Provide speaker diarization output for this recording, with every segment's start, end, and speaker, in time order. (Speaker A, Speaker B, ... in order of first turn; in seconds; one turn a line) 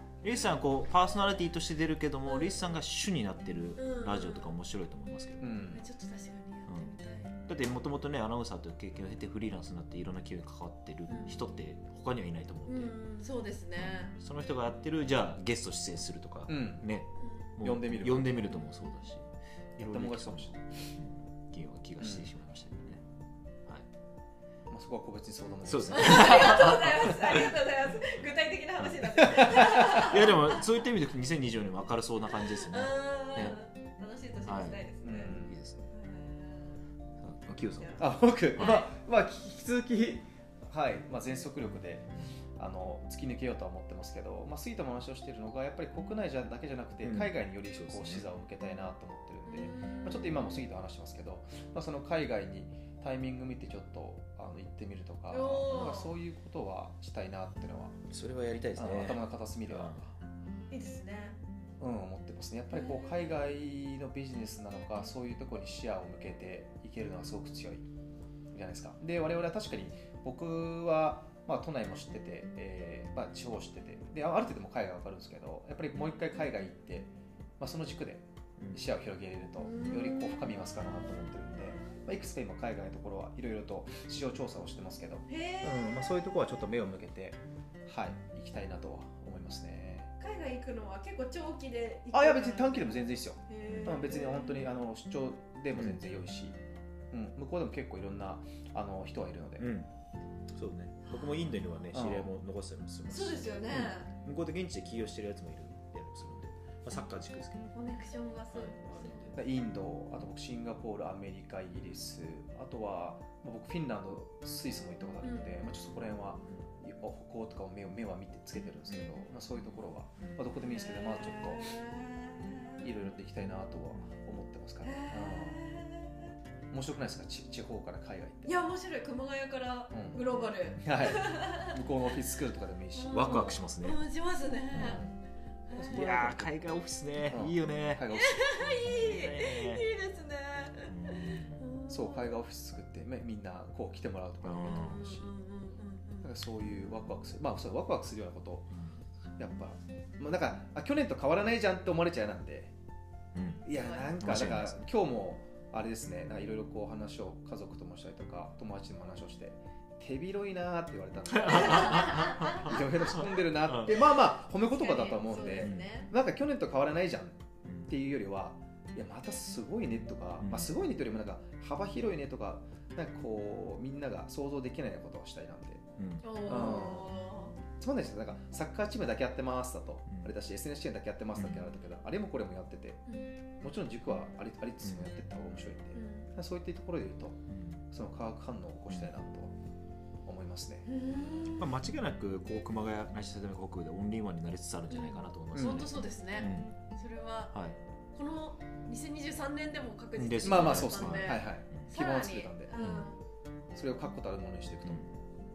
Speaker A: 0.2-5.5
Speaker B: 2.3-2.6
Speaker B: 3.8-4.5
Speaker C: 5.4-5.8
Speaker B: 5.7-7.4
Speaker A: 6.7-6.9
Speaker A: 7.5-12.9
Speaker B: 11.1-11.4
Speaker B: 12.7-14.1
Speaker A: 13.8-19.2
Speaker C: 16.5-16.9
Speaker B: 17.2-17.6
Speaker C: 17.6-18.4
Speaker A: 19.8-23.0
Speaker C: 19.8-20.6
Speaker C: 22.0-22.3
Speaker C: 24.7-26.8
Speaker A: 25.6-27.5
Speaker B: 25.9-30.6
Speaker A: 28.8-33.6
Speaker C: 29.2-30.2
Speaker B: 32.5-36.8
Speaker A: 34.4-35.9
Speaker C: 35.0-35.5
Speaker A: 37.2-38.8
Speaker B: 37.6-38.9
Speaker C: 38.0-58.0
Speaker A: 47.0-48.3
Speaker B: 49.5-50.6
Speaker B: 55.3-56.1
Speaker A: 58.1-60.2
Speaker C: 58.8-59.9
Speaker B: 60.7-61.4
Speaker C: 61.8-67.8
Speaker B: 62.7-63.4
Speaker C: 68.5-85.2
Speaker A: 78.6-78.8
Speaker B: 79.6-80.4
Speaker B: 85.3-86.1
Speaker A: 85.6-86.6
Speaker C: 85.9-90.1
Speaker B: 90.2-94.7
Speaker C: 92.1-96.6
Speaker A: 93.7-94.0
Speaker A: 95.7-96.0
Speaker C: 97.1-99.7
Speaker A: 99.6-99.9
Speaker A: 100.5-107.7
Speaker B: 101.1-102.0
Speaker C: 101.9-102.3
Speaker B: 103.1-104.1
Speaker B: 107.7-109.4
Speaker A: 108.5-109.5
Speaker C: 109.4-121.7
Speaker B: 115.2-115.6
Speaker B: 120.6-122.9
Speaker C: 122.8-125.6
Speaker B: 124.8-126.3
Speaker C: 126.7-128.5
Speaker B: 128.4-131.8
Speaker C: 129.9-130.2
Speaker C: 130.8-133.6
Speaker B: 132.9-135.0
Speaker A: 133.1-134.0
Speaker A: 134.7-135.0
Speaker C: 134.8-135.1
Speaker B: 135.7-136.1
Speaker C: 135.7-136.6
Speaker A: 135.9-138.1
Speaker C: 137.3-138.7
Speaker B: 138.2-142.3
Speaker A: 138.6-139.8
Speaker A: 140.9-141.7
Speaker C: 141.9-145.3
Speaker A: 144.4-145.0
Speaker B: 144.7-146.3
Speaker C: 146.2-148.7
Speaker A: 148.7-149.0
Speaker C: 149.4-152.7
Speaker A: 153.3-153.7
Speaker C: 153.6-175.8
Speaker B: 153.7-154.1
Speaker A: 154.2-154.8
Speaker A: 161.3-164.0
Speaker B: 161.5-162.8
Speaker B: 164.4-166.1
Speaker A: 165.6-165.9
Speaker A: 170.4-170.7
Speaker A: 176.0-176.3
Speaker B: 176.2-177.6
Speaker C: 176.5-177.1
Speaker C: 177.8-183.0
Speaker A: 181.4-181.7
Speaker B: 183.1-183.3
Speaker C: 183.6-187.4
Speaker A: 184.8-185.1
Speaker B: 185.9-186.3
Speaker A: 187.5-187.8
Speaker C: 187.9-189.5
Speaker C: 190.3-190.9
Speaker B: 190.9-191.7
Speaker A: 191.6-196.7
Speaker B: 194.9-197.6
Speaker C: 195.5-195.9
Speaker B: 198.1-203.2
Speaker A: 200.2-201.9
Speaker C: 200.4-202.7
Speaker A: 202.8-203.1
Speaker C: 203.7-205.0
Speaker A: 204.8-205.1